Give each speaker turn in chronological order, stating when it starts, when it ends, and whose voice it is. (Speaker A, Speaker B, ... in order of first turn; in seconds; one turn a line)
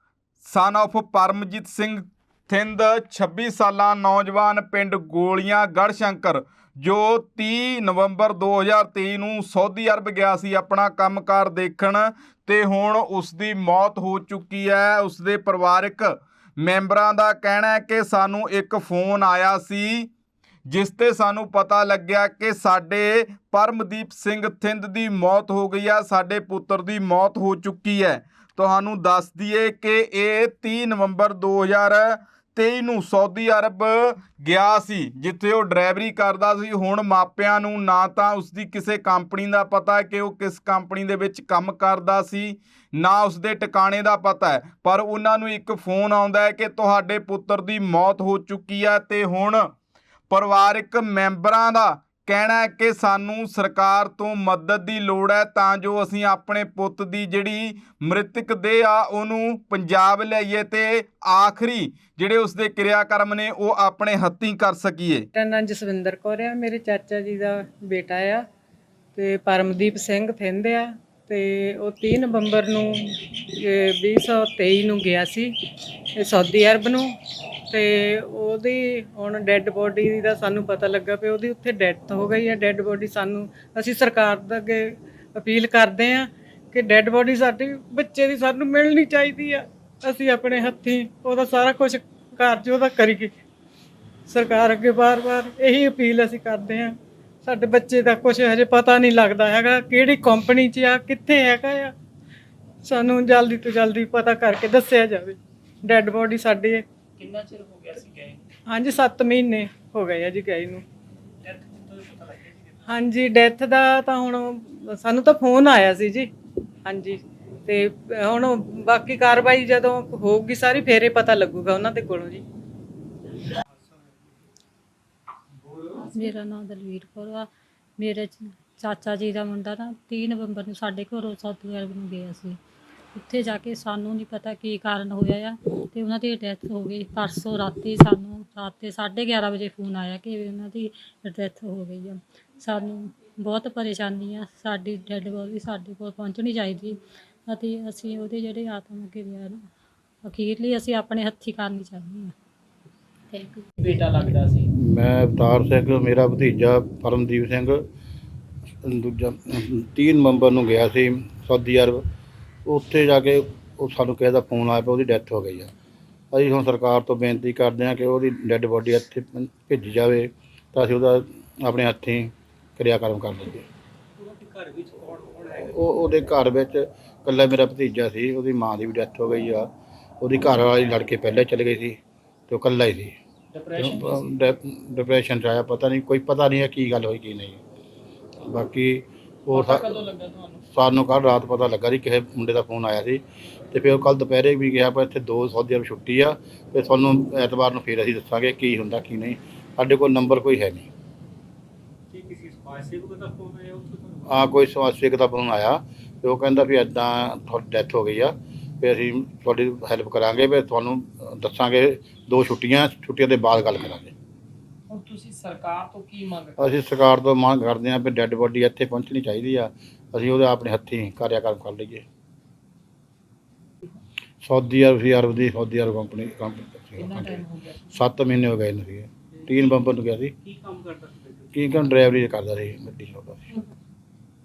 Speaker A: 0.4-20.1
Speaker A: 20.7-49.7
Speaker A: 50.3-65.3
Speaker B: 65.3-68.5
Speaker B: 69.2-75.6
Speaker B: 76.2-77.1
Speaker B: 77.7-93.3
Speaker B: 94.3-101.9
Speaker B: 102.8-106.8
Speaker C: 107.2-108.4
Speaker B: 108.7-110.8
Speaker C: 111.5-112.5
Speaker B: 112.9-116.3
Speaker B: 116.8-122.4
Speaker D: 126.0-132.6
Speaker D: 133.2-149.6
Speaker D: 150.2-152.3
Speaker D: 153.3-153.7
Speaker C: 153.8-154.7
Speaker E: 154.8-157.8
Speaker E: 158.8-162.0
Speaker E: 162.7-165.7
Speaker E: 166.3-173.7
Speaker C: 174.2-175.6
Speaker E: 175.6-179.7
Speaker E: 180.2-182.0
Speaker E: 182.5-183.2
Speaker C: 183.5-184.4
Speaker E: 183.8-187.6
Speaker E: 188.4-190.0
Speaker C: 189.5-190.6
Speaker E: 190.7-200.9
Speaker C: 202.1-203.9
Speaker E: 204.3-214.1
Speaker C: 214.9-216.8
Speaker E: 216.6-222.1
Speaker E: 224.4-230.3
Speaker C: 227.0-227.8
Speaker C: 230.5-231.9
Speaker E: 231.5-233.7